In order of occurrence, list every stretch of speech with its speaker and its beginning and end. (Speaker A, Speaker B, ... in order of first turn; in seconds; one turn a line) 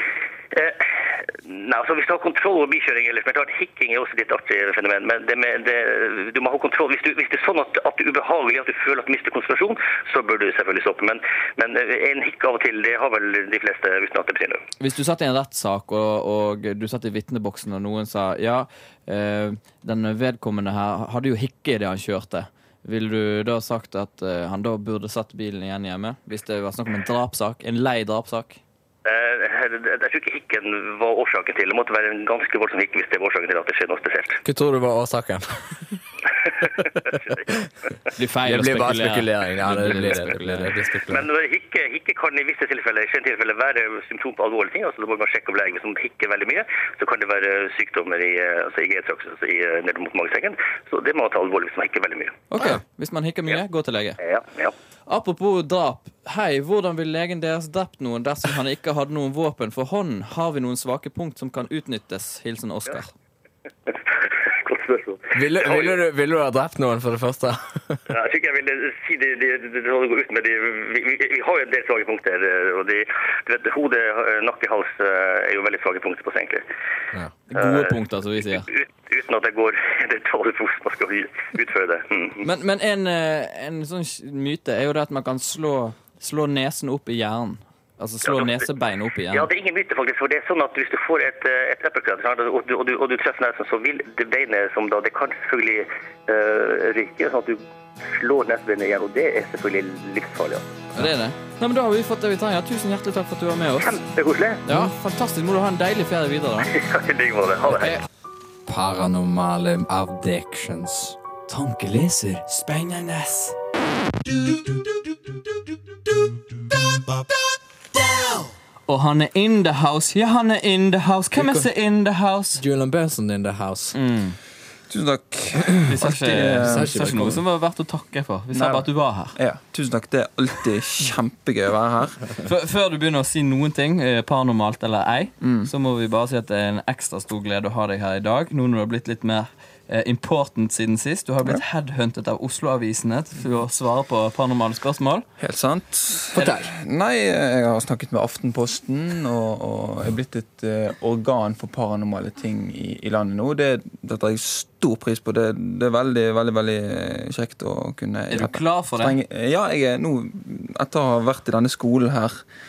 Speaker A: 0.5-14.6
Speaker B: 14.8-28.6
Speaker A: 29.0-34.4
Speaker C: 34.4-35.5
Speaker B: 38.1-40.6
Speaker C: 38.4-41.2
Speaker A: 41.1-52.4
Speaker B: 52.5-54.2
Speaker A: 54.2-54.7
Speaker B: 55.1-63.1
Speaker A: 63.9-65.9
Speaker C: 65.3-68.0
Speaker A: 68.1-76.6
Speaker B: 77.5-78.7
Speaker A: 77.5-78.0
Speaker A: 78.5-82.4
Speaker B: 82.4-89.5
Speaker A: 88.2-88.6
Speaker A: 89.3-100.7
Speaker B: 101.0-104.0
Speaker A: 103.8-104.6
Speaker B: 104.7-106.7
Speaker A: 106.7-108.0
Speaker B: 107.7-108.0
Speaker C: 108.7-111.2
Speaker B: 111.5-113.5
Speaker B: 118.1-118.3
Speaker B: 118.9-122.6
Speaker C: 121.3-121.7
Speaker C: 122.6-123.9
Speaker B: 123.9-124.4
Speaker D: 124.9-126.9
Speaker B: 125.9-129.3
Speaker C: 126.6-127.4
Speaker D: 128.5-132.3
Speaker B: 132.4-145.2
Speaker D: 135.4-135.7
Speaker D: 145.4-162.4
Speaker C: 146.3-146.7
Speaker B: 158.3-159.2